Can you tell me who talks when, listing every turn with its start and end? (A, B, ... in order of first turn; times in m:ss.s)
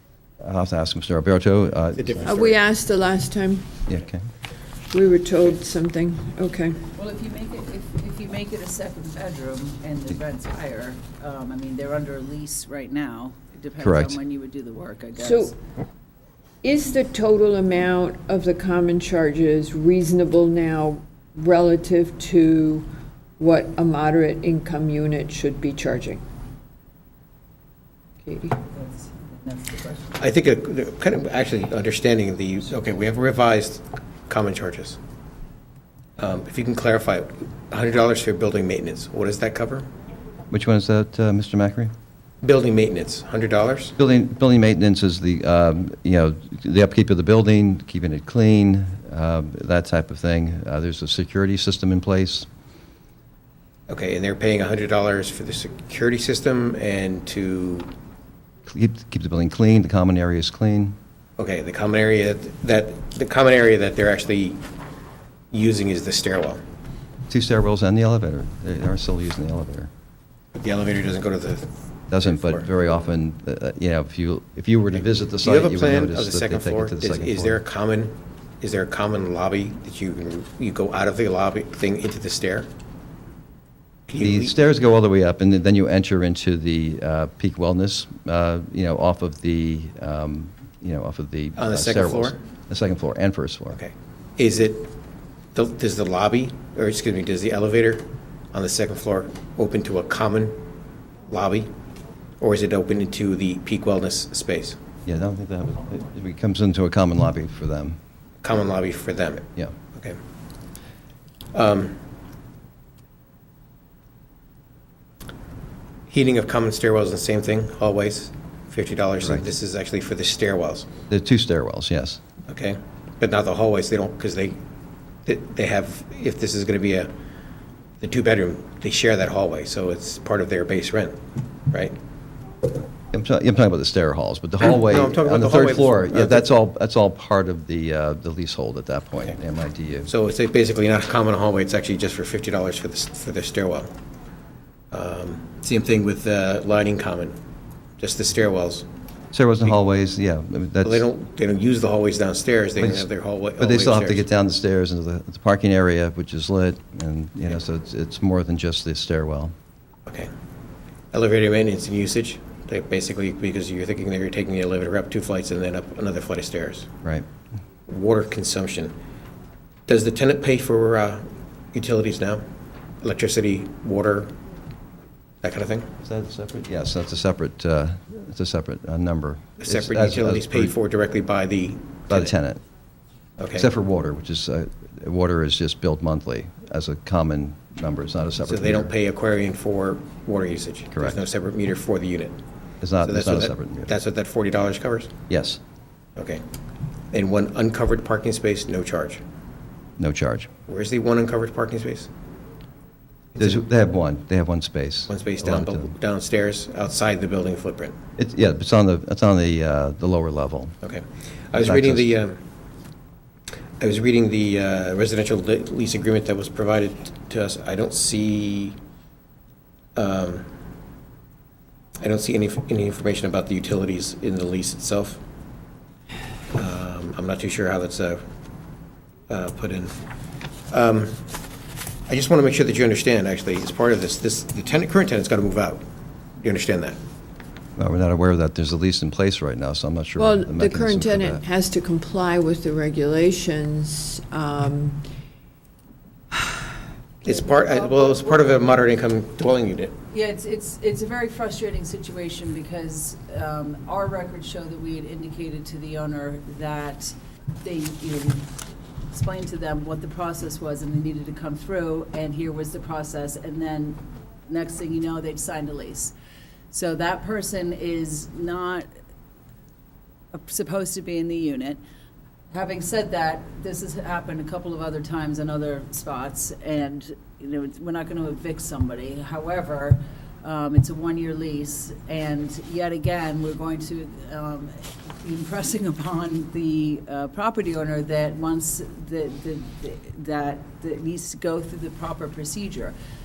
0:00.4-0:02.3 A
0:02.0-0:02.6 B
0:02.2-0:03.9 C
0:03.9-0:04.2 A
0:04.9-0:06.9 C
0:07.0-0:15.5 D
0:13.8-0:14.2 A
0:15.2-0:15.5 C
0:16.6-0:22.9 C
0:23.4-0:26.2 C
0:28.2-0:28.6 C
0:28.7-0:30.2 D
0:30.2-0:35.0 B
0:36.2-0:39.9 B
0:40.5-0:41.9 A
0:42.4-0:43.9 B
0:44.0-0:52.5 A
0:53.9-0:57.9 B
0:58.7-1:01.0 A
1:01.4-1:04.6 B
1:05.5-1:06.6 B
1:07.3-1:09.9 A
1:10.6-1:12.6 B
1:12.1-1:17.6 A
1:15.4-1:22.7 B
1:24.1-1:24.6 B
1:24.2-1:33.8 A
1:31.6-1:32.4 B
1:33.7-1:34.9 B
1:35.5-1:40.6 B
1:41.3-1:41.7 B
1:42.4-1:44.8 B
1:45.0-1:48.0 A
1:48.4-1:50.2 B
1:51.5-1:52.0 B
1:56.1-2:00.9 B
2:01.1-2:02.2 A
2:02.5-2:04.6 B
2:05.2-2:07.1 B
2:08.0-2:11.2 B
2:11.7-2:12.0 B
2:13.1-2:20.1 A
2:14.6-2:16.5 B
2:20.1-2:23.9 B
2:24.9-2:27.4 B
2:28.0-2:28.9 B
2:29.3-2:31.0 A
2:30.8-2:34.2 B
2:32.8-2:39.5 A
2:41.1-2:46.9 B
2:47.9-2:48.9 B
2:49.9-2:52.4 B
2:53.0-2:54.4 B
2:55.4-2:55.9 B
2:56.0-3:00.7 A
2:59.6-3:02.3 B
3:02.1-3:02.6 A
3:03.4-3:03.7 B
3:03.5-3:08.9 A
3:08.4-3:12.4 B
3:10.9-3:11.2 A
3:12.8-3:13.9 A
3:13.0-3:15.1 B
3:15.3-3:15.6 A
3:16.2-3:16.4 B
3:17.1-3:19.2 B
3:20.0-3:20.5 A
3:20.7-3:22.1 B
3:23.3-3:23.6 B
3:23.4-3:25.9 A
3:25.1-3:28.0 B
3:28.2-3:30.7 A
3:30.8-3:32.4 B
3:31.5-3:32.1 A
3:33.8-3:38.8 B
3:39.9-3:40.4 B
3:42.0-3:45.2 B
3:46.5-3:48.2 B
3:49.3-3:49.9 B
3:50.7-3:51.3 B
3:52.1-3:55.8 B
3:56.4-3:57.0 B
3:57.8-4:01.4 A
4:00.2-4:05.0 C
4:07.2-4:09.9 B
4:07.3-4:08.6 D
4:10.1-4:18.5 D
4:19.1-4:26.1 D
4:26.7-4:28.9 D
4:30.3-4:31.8 D
4:32.5-4:52.9 D